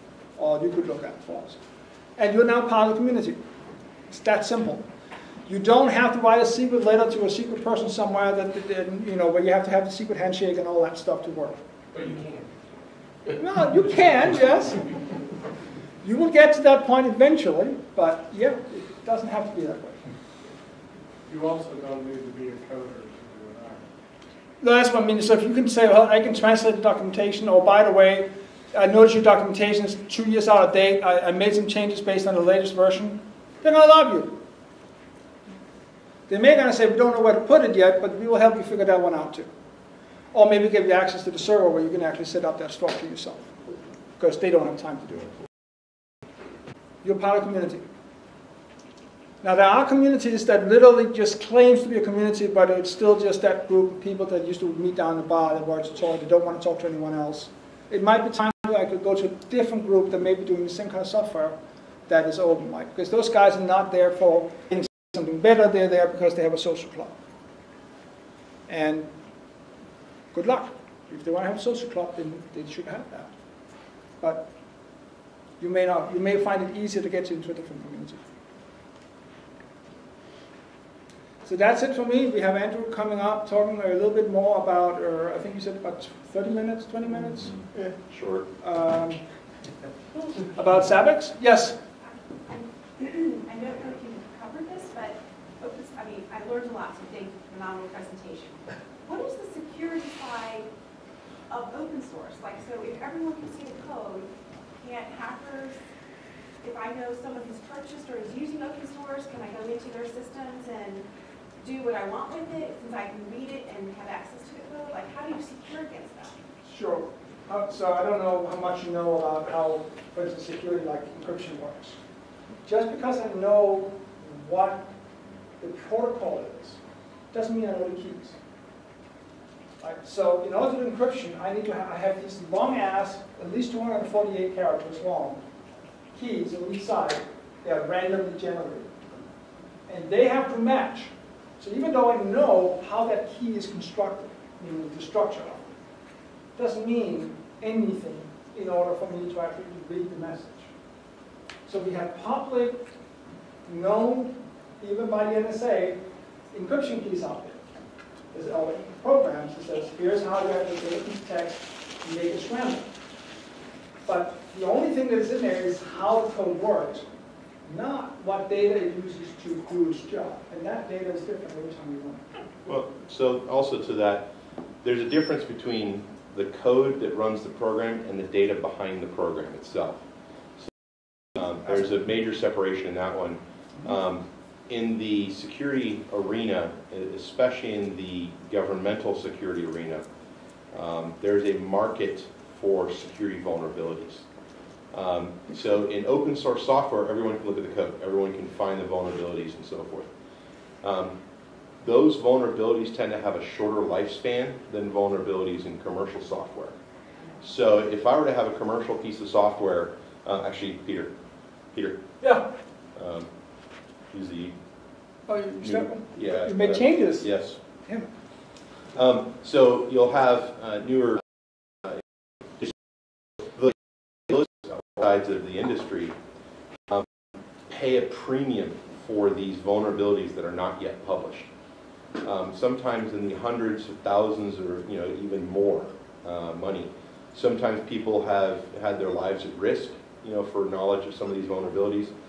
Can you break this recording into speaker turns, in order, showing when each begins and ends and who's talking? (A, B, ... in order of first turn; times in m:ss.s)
0:00.4-0:01.6 A
0:02.2-0:03.4 A
0:04.1-0:04.8 A
0:05.5-0:11.6 A
0:11.9-0:12.4 B
0:13.4-0:14.9 A
0:16.0-0:20.0 A
0:21.3-0:23.9 B
0:24.6-0:34.4 A
0:36.3-0:39.5 A
0:40.3-0:43.5 A
0:44.2-0:45.4 A
0:47.0-0:47.8 A
0:49.4-1:01.6 A
1:02.1-1:07.2 A
1:08.7-1:09.1 A
1:10.3-1:13.3 A
1:14.2-1:14.5 A
1:15.6-1:18.2 A
1:21.4-1:27.9 A
1:28.1-1:28.5 C
1:28.6-1:29.2 A
1:30.4-1:31.8 A
1:32.5-1:40.7 D
1:41.5-1:45.8 D
1:46.6-1:51.1 D
1:51.6-1:56.4 D
1:56.6-2:02.0 A
2:02.6-2:04.9 A
2:05.6-2:06.8 A
2:07.3-2:08.4 A
2:09.8-2:15.4 A
2:16.1-2:18.9 A
2:19.9-2:25.7 A
2:26.6-2:30.7 A
2:31.7-2:32.8 A
2:33.7-2:36.0 A
2:36.5-2:37.6 A
2:38.3-2:42.9 A
2:44.0-2:47.1 A
2:47.6-2:52.2 A
2:52.7-2:54.3 C
2:54.8-3:00.0 C
3:01.3-3:10.1 C
3:10.7-3:14.2 C
3:14.9-3:20.1 C
3:20.8-3:21.2 C
3:21.8-3:26.8 C
3:27.4-3:31.1 C
3:31.7-3:32.0 C
3:32.9-3:33.3 C
3:34.1-3:34.6 C
3:35.3-3:37.3 A
3:35.6-3:37.6 C
3:38.9-3:42.0 C
3:43.4-3:46.2 C
3:47.7-3:51.5 C
3:52.2-4:02.1 C